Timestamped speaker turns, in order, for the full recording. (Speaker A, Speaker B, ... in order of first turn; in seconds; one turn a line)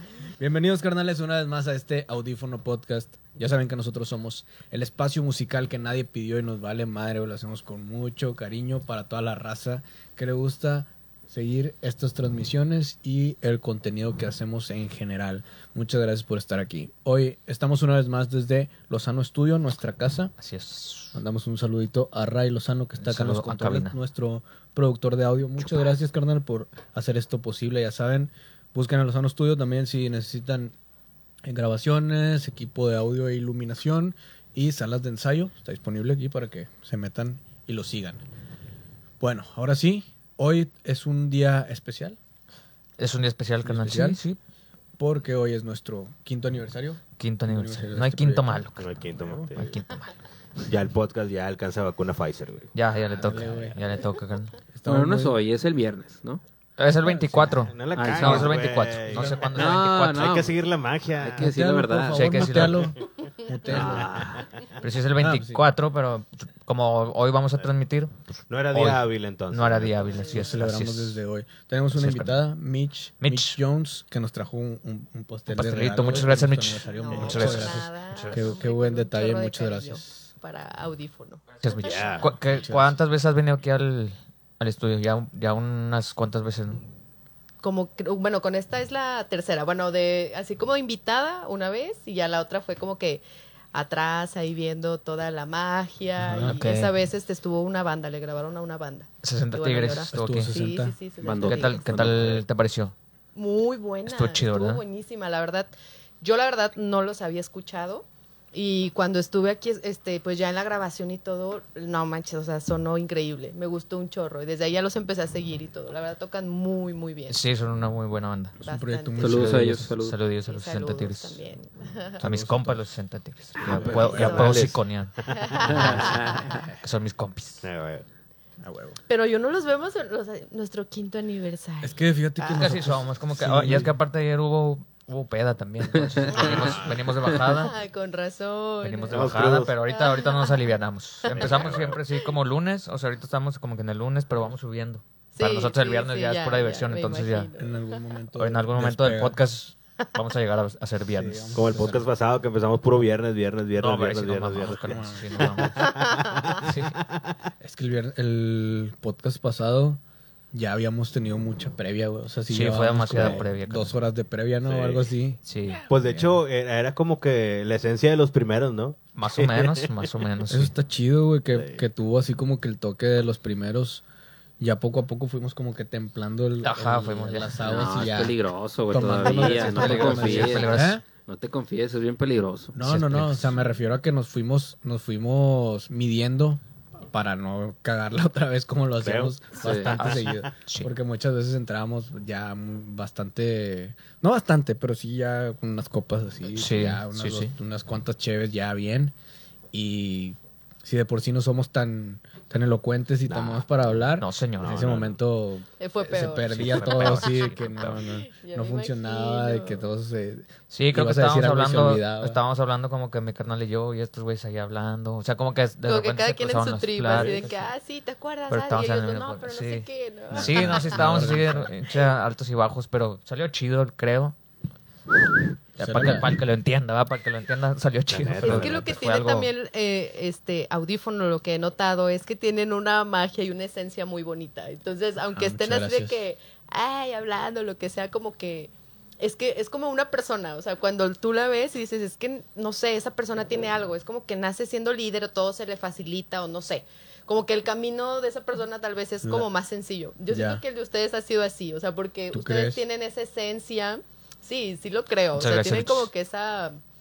Speaker A: 0.4-20.3
Speaker B: 20.4-21.2
Speaker A: 21.1-30.7
Speaker B: 23.0-23.9
Speaker A: 31.4-38.2
Speaker A: 39.2-42.2
Speaker B: 43.0-44.4
Speaker A: 43.6-44.2
Speaker A: 45.0-49.5
Speaker B: 47.2-50.1
Speaker C: 48.8-49.7
Speaker C: 50.7-52.7
Speaker B: 52.7-54.6
Speaker A: 53.1-53.8
Speaker A: 54.7-55.4
Speaker D: 54.8-56.4
Speaker B: 56.8-60.5
Speaker A: 57.0-57.6
Speaker C: 57.6-61.5
Speaker D: 57.9-58.5
Speaker A: 59.1-59.6
Speaker D: 59.5-60.5
Speaker D: 61.2-62.3
Speaker A: 61.4-64.3
Speaker B: 62.1-62.9
Speaker D: 63.7-64.4
Speaker C: 63.7-64.4
Speaker B: 64.8-68.1
Speaker A: 65.2-65.7
Speaker C: 68.5-70.3
Speaker B: 68.7-71.2
Speaker E: 70.1-70.4
Speaker A: 70.3-80.2
Speaker B: 71.9-72.4
Speaker B: 73.2-73.6
Speaker B: 75.5-78.5
Speaker E: 76.9-82.3
Speaker B: 81.6-86.8
Speaker C: 81.8-82.3
Speaker A: 82.4-82.9
Speaker E: 87.6-93.2
Speaker E: 93.7-101.8
Speaker A: 96.2-96.6
Speaker B: 96.4-96.9
Speaker B: 99.2-100.6
Speaker A: 100.1-101.0
Speaker D: 101.2-102.4
Speaker B: 101.4-102.9
Speaker E: 103.3-117.4
Speaker B: 104.1-104.8
Speaker B: 117.3-118.6
Speaker A: 118.6-119.9
Speaker E: 118.6-119.3
Speaker D: 119.2-120.2
Speaker B: 119.2-121.4
Speaker E: 120.5-122.2
Speaker A: 122.2-122.8
Speaker B: 122.2-127.6
Speaker A: 123.6-124.8
Speaker C: 123.6-124.4
Speaker E: 123.8-124.6
Speaker E: 125.3-126.6
Speaker D: 125.8-126.3
Speaker A: 125.8-126.6
Speaker C: 127.6-128.0
Speaker A: 128.6-129.0
Speaker E: 129.1-132.6
Speaker A: 131.8-133.9
Speaker B: 132.5-137.8
Speaker D: 136.0-136.6
Speaker C: 136.3-137.0
Speaker E: 137.4-139.2
Speaker B: 138.8-147.5
Speaker C: 139.1-139.7
Speaker E: 139.8-140.7
Speaker E: 141.3-141.7
Speaker C: 141.3-142.0
Speaker E: 145.3-148.0
Speaker A: 147.6-149.4
Speaker B: 148.3-152.0
Speaker A: 151.1-152.0
Speaker C: 151.5-156.7
Speaker B: 153.8-155.9
Speaker A: 154.8-155.6
Speaker B: 156.5-157.0
Speaker A: 157.6-160.0
Speaker A: 160.5-166.4
Speaker B: 162.5-163.9
Speaker C: 163.1-163.4
Speaker C: 164.6-165.1
Speaker B: 165.4-165.8
Speaker C: 165.9-170.1
Speaker B: 169.1-170.7
Speaker A: 170.5-174.0
Speaker C: 171.5-171.8
Speaker A: 174.6-181.0
Speaker B: 176.6-178.2
Speaker D: 177.6-182.8
Speaker B: 179.2-181.0
Speaker A: 182.7-199.1
Speaker B: 182.8-183.6
Speaker C: 189.0-190.4
Speaker D: 189.6-190.0
Speaker B: 189.7-190.9
Speaker B: 196.5-197.5
Speaker A: 199.7-212.4
Speaker B: 203.3-203.6
Speaker B: 204.2-204.8
Speaker C: 204.6-205.2
Speaker E: 205.8-209.8
Speaker B: 206.2-208.0
Speaker B: 210.7-217.7
Speaker E: 215.8-221.0
Speaker C: 217.1-217.4
Speaker B: 218.5-224.3
Speaker A: 220.3-221.7
Speaker B: 225.7-229.5
Speaker A: 225.8-226.4
Speaker C: 228.1-228.8
Speaker E: 228.4-238.7
Speaker A: 235.3-236.2
Speaker E: 239.2-256.7
Speaker A: 250.3-250.6
Speaker A: 252.3-252.8
Speaker B: 255.3-256.1